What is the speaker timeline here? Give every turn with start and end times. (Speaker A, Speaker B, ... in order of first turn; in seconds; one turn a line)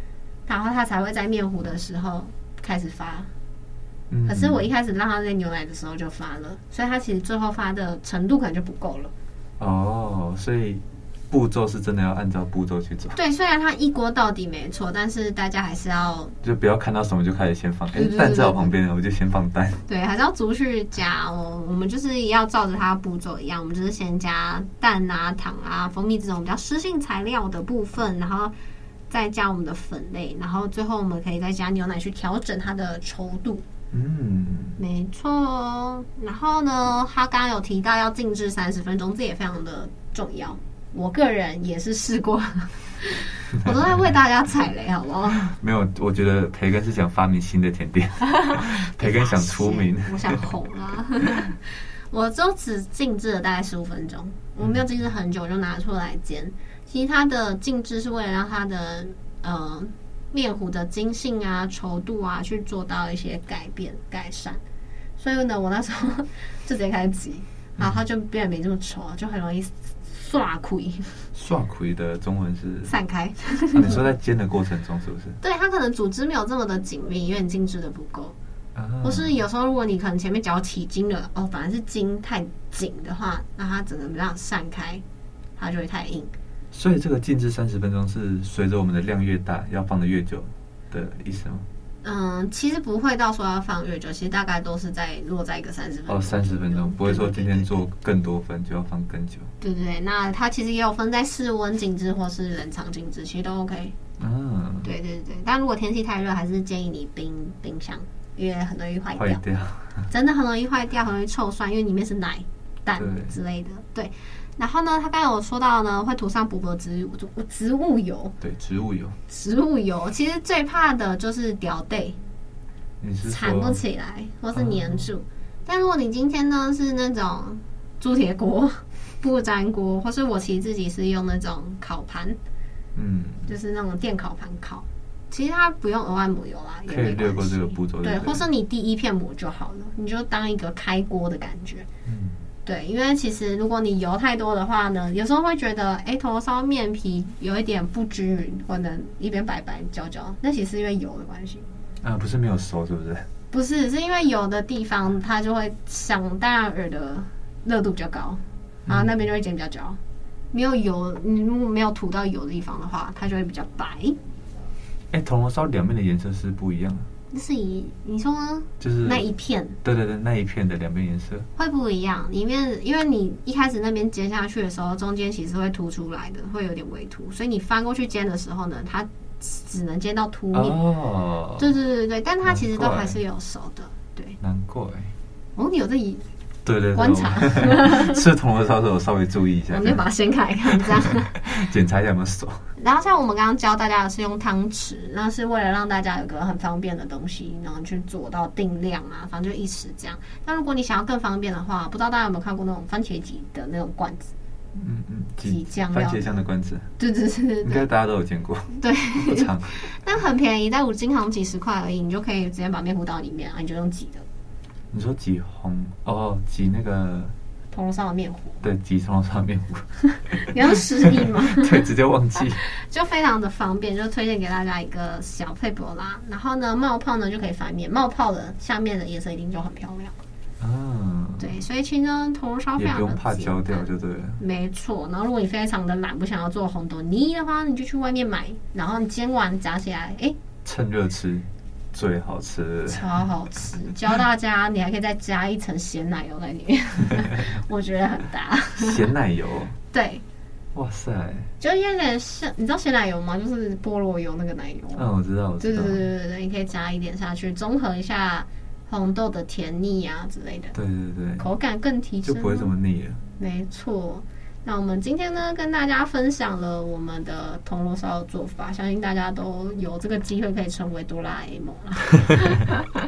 Speaker A: 0.5-3.3
Speaker B: 4.1-4.7
Speaker A: 4.3-9.1
Speaker B: 9.6-13.2
Speaker A: 13.1-16.3
Speaker B: 16.4-19.8
Speaker A: 17.9-18.7
Speaker A: 19.9-28.5
Speaker A: 29.1-33.6
Speaker B: 33.9-34.8
Speaker A: 34.8-45.5
Speaker B: 45.4-50.4
Speaker A: 48.3-64.6
Speaker A: 65.2-71.2
Speaker B: 71.3-72.9
Speaker A: 72.8-74.0
Speaker B: 73.7-75.4
Speaker A: 75.4-78.3
Speaker B: 78.7-79.3
Speaker A: 79.0-85.0
Speaker A: 85.6-86.3
Speaker B: 86.7-91.6
Speaker A: 92.0-97.8
Speaker B: 96.1-99.5
Speaker A: 99.6-103.9
Speaker B: 104.2-104.9
Speaker A: 104.8-109.4
Speaker B: 109.1-110.1
Speaker A: 110.1-118.3
Speaker B: 113.0-113.3
Speaker B: 118.4-119.2
Speaker A: 119.3-122.2
Speaker B: 123.0-123.8
Speaker A: 123.2-132.4
Speaker B: 124.5-125.1
Speaker B: 132.9-133.5
Speaker A: 133.4-141.9
Speaker B: 136.9-138.4
Speaker B: 142.1-142.4
Speaker A: 142.6-151.7
Speaker B: 152.0-153.2
Speaker A: 153.5-160.0
Speaker B: 158.8-159.1
Speaker A: 160.5-164.2
Speaker B: 165.1-167.1
Speaker A: 167.3-169.8
Speaker B: 168.8-169.3
Speaker B: 169.8-171.5
Speaker A: 171.6-180.8
Speaker B: 180.5-181.7
Speaker A: 181.6-184.4
Speaker B: 182.4-183.2
Speaker B: 184.4-185.1
Speaker A: 185.6-186.2
Speaker B: 186.6-190.0
Speaker A: 186.9-188.2
Speaker A: 189.7-191.4
Speaker B: 190.7-192.6
Speaker A: 192.8-204.3
Speaker B: 204.8-206.9
Speaker A: 205.4-206.4
Speaker A: 207.0-207.8
Speaker B: 207.6-209.8
Speaker A: 208.8-214.2
Speaker B: 214.9-217.3
Speaker A: 217.7-218.6
Speaker B: 218.6-222.6
Speaker A: 220.4-221.8
Speaker A: 222.6-230.1
Speaker B: 230.6-231.6
Speaker A: 231.4-240.3
Speaker B: 232.8-234.4
Speaker B: 240.6-243.1
Speaker A: 242.9-249.0
Speaker B: 248.8-249.8
Speaker A: 249.9-250.2
Speaker B: 250.7-251.5
Speaker A: 251.6-255.1
Speaker B: 254.9-256.0
Speaker A: 255.6-260.8
Speaker B: 260.7-261.4
Speaker A: 261.4-262.7
Speaker B: 262.2-263.2
Speaker A: 263.4-272.9